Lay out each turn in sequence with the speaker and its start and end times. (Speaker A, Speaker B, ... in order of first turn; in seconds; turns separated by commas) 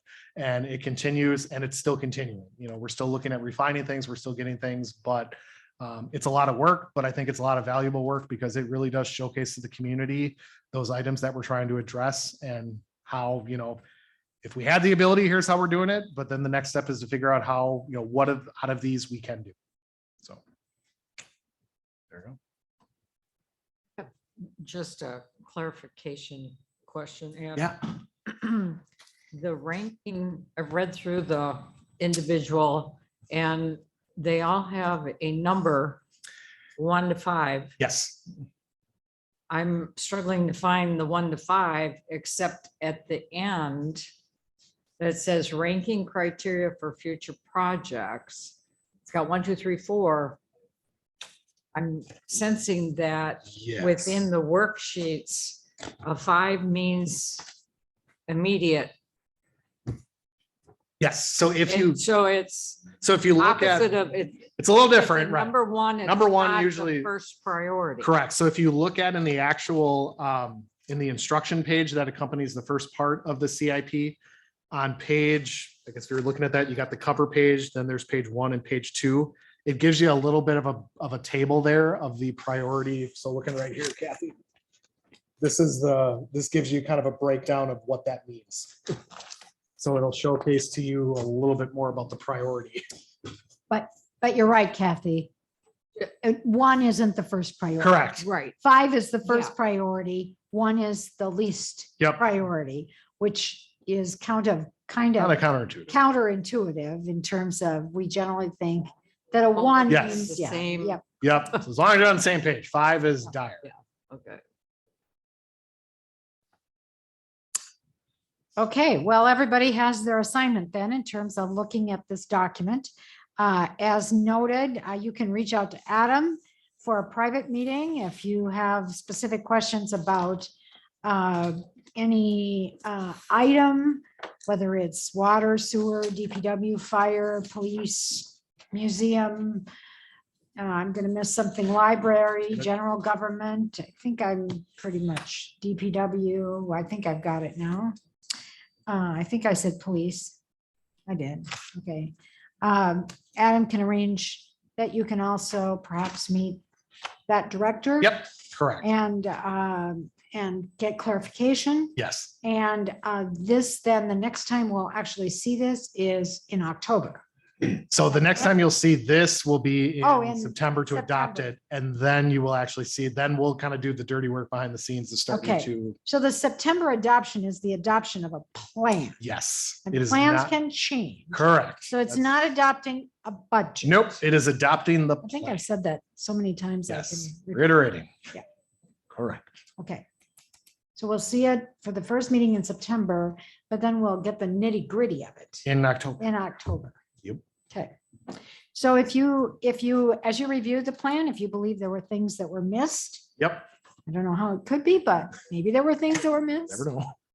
Speaker A: 0.4-13.8, Speaker A: 14.4-19.6, Speaker A: 22.1-22.4, Speaker B: 24.0-28.8, Speaker B: 29.3-36.0, Speaker B: 36.8-37.7, Speaker A: 37.8-38.2, Speaker B: 39.5-44.0, Speaker B: 45.0-50.4, Speaker B: 51.7-57.5, Speaker A: 53.5-54.3, Speaker B: 58.3-58.9, Speaker A: 61.0-62.0, Speaker B: 61.7-68.1, Speaker A: 63.0-63.9, Speaker A: 64.6-65.5, Speaker A: 66.0-67.1, Speaker A: 68.0-74.2, Speaker A: 74.7-84.4, Speaker A: 85.4-88.9, Speaker A: 89.8-92.8, Speaker C: 93.7-95.3, Speaker C: 96.0-111.0, Speaker A: 97.8-98.2, Speaker B: 98.2-98.6, Speaker B: 99.2-99.5, Speaker A: 105.2-105.9, Speaker B: 109.5-111.0, Speaker A: 109.9-110.3, Speaker A: 111.2-113.7, Speaker B: 113.6-114.4, Speaker C: 118.6-130.5, Speaker C: 131.0-139.7, Speaker C: 140.6-147.9, Speaker C: 148.9-150.4, Speaker C: 151.1-156.6, Speaker C: 157.3-158.2, Speaker A: 158.0-158.8, Speaker C: 158.8-167.2, Speaker A: 162.0-162.3, Speaker A: 167.7-176.0, Speaker C: 170.0-171.5, Speaker C: 175.3-179.2, Speaker A: 179.2-180.5, Speaker C: 179.8-184.1, Speaker A: 181.3-182.2, Speaker A: 183.8-185.6, Speaker C: 185.2-187.8, Speaker A: 186.9-188.1, Speaker A: 189.1-189.4, Speaker C: 189.8-190.0, Speaker C: 190.9-195.7, Speaker A: 195.6-196.2, Speaker C: 196.2-197.0, Speaker C: 197.7-197.9, Speaker C: 198.7-203.3, Speaker A: 203.4-203.7, Speaker C: 204.1-206.8, Speaker A: 206.7-207.1